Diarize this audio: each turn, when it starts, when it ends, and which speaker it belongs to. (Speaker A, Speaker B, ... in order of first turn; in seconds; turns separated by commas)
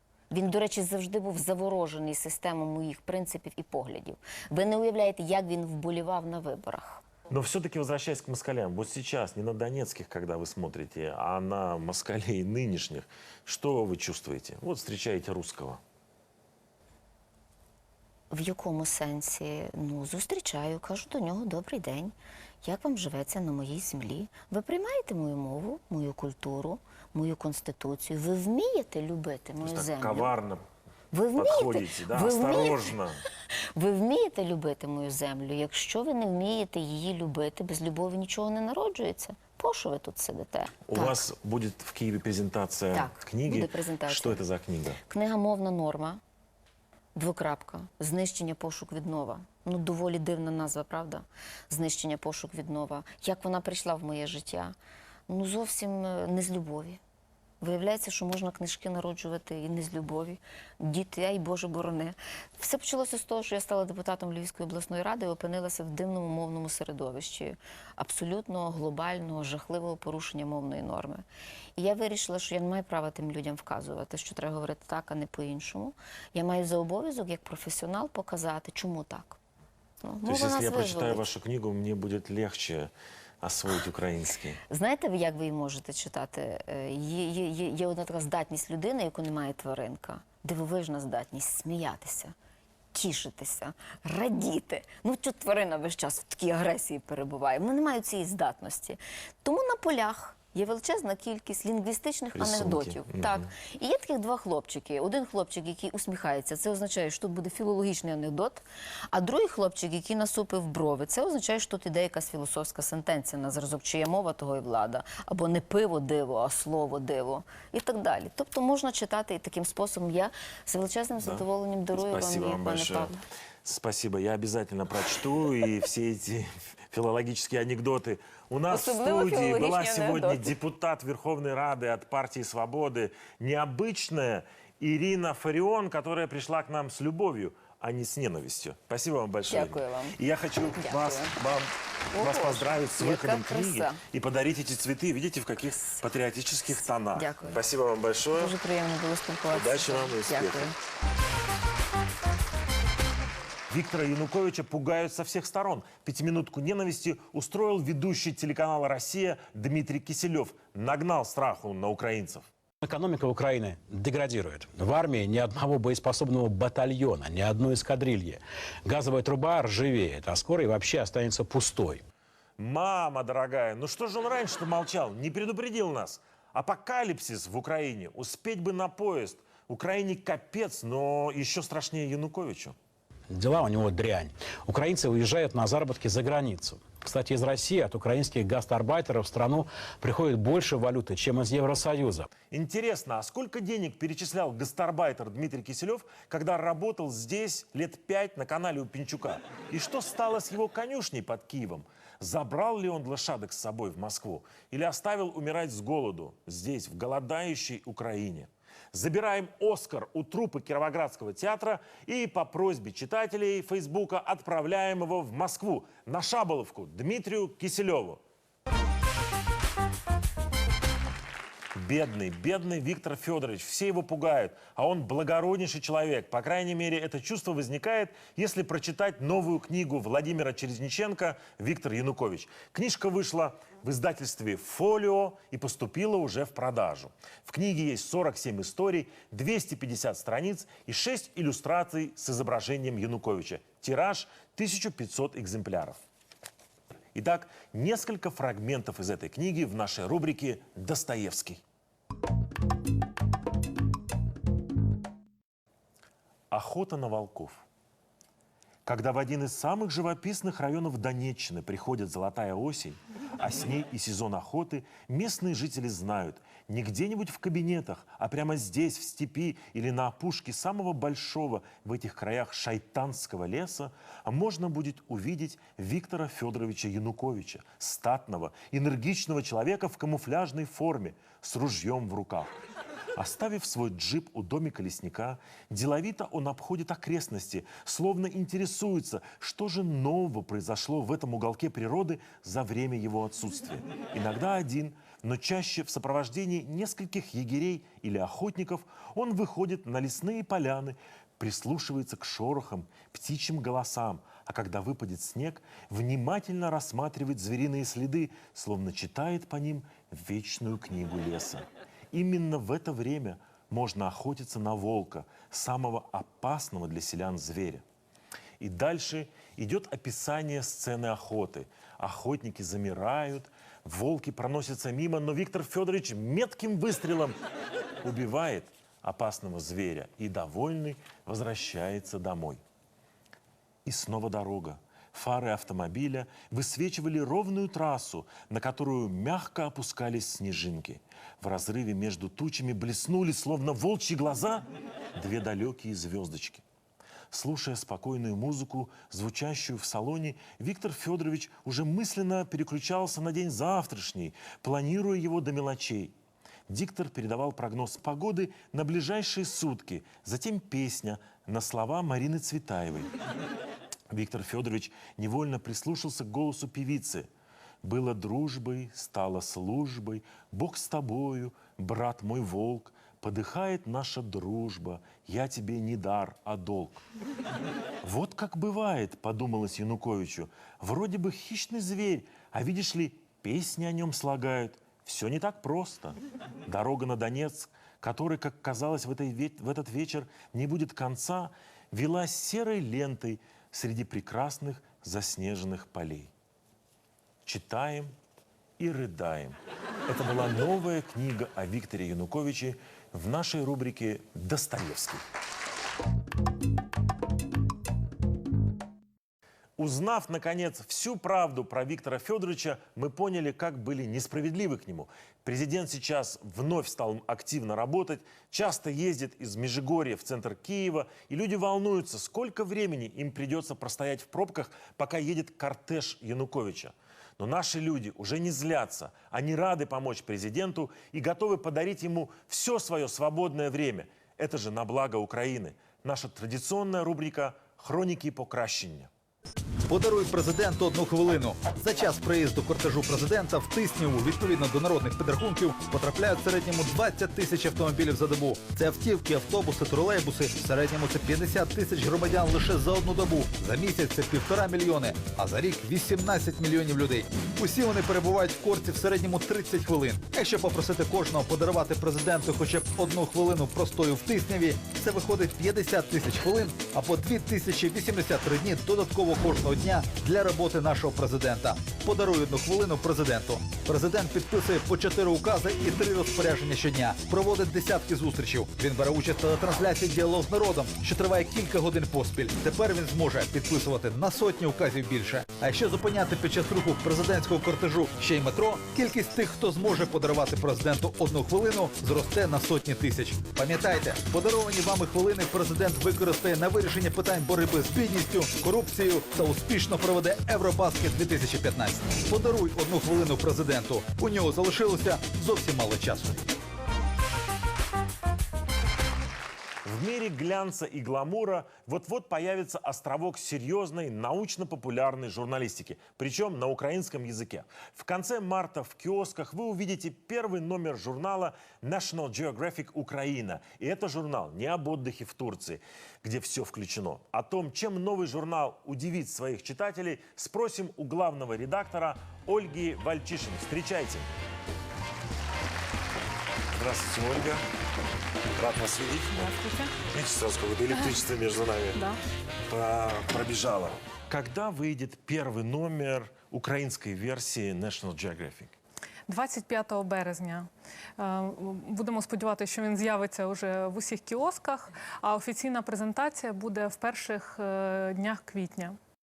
Speaker A: 0.3-7.0, Speaker B: 7.3-15.8, Speaker A: 18.3-30.3, Speaker B: 29.6-30.6, Speaker A: 31.1-32.9, Speaker B: 31.4-33.2, Speaker A: 33.7-41.2, Speaker B: 40.9-45.0, Speaker A: 42.9-44.4, Speaker A: 45.0-46.2, Speaker A: 47.1-54.8, Speaker A: 55.3-57.0, Speaker A: 57.6-71.2, Speaker A: 71.8-79.4, Speaker A: 80.0-81.2, Speaker B: 80.2-82.9, Speaker B: 83.4-84.6, Speaker A: 84.7-92.3, Speaker A: 92.9-123.2, Speaker B: 102.3-103.5, Speaker B: 122.0-123.1, Speaker B: 123.6-148.5, Speaker A: 128.7-130.5, Speaker A: 139.5-140.2, Speaker A: 140.8-141.3, Speaker A: 142.1-144.0, Speaker A: 147.1-147.6, Speaker A: 148.3-150.8, Speaker B: 149.5-150.7, Speaker B: 153.7-162.5, Speaker C: 162.8-172.0, Speaker B: 172.6-182.8, Speaker C: 183.3-192.3, Speaker B: 192.5-218.2, Speaker B: 221.7-246.0, Speaker B: 247.1-251.6, Speaker B: 256.5-257.6, Speaker B: 258.9-282.6, Speaker B: 283.1-317.8, Speaker B: 318.6-327.4, Speaker B: 328.0-332.6, Speaker B: 333.8-346.6, Speaker B: 347.3-356.1, Speaker B: 356.7-363.1, Speaker B: 364.1-367.3, Speaker B: 367.8-377.0, Speaker B: 378.0-396.3, Speaker B: 397.4-398.1, Speaker B: 398.8-405.2, Speaker B: 409.8-439.1, Speaker D: 439.9-506.5, Speaker B: 509.8-534.3, Speaker B: 536.7-537.6, Speaker B: 538.5-539.5, Speaker E: 539.4-540.0, Speaker B: 540.0-542.0, Speaker E: 541.9-542.2, Speaker B: 542.7-548.7, Speaker E: 549.3-559.0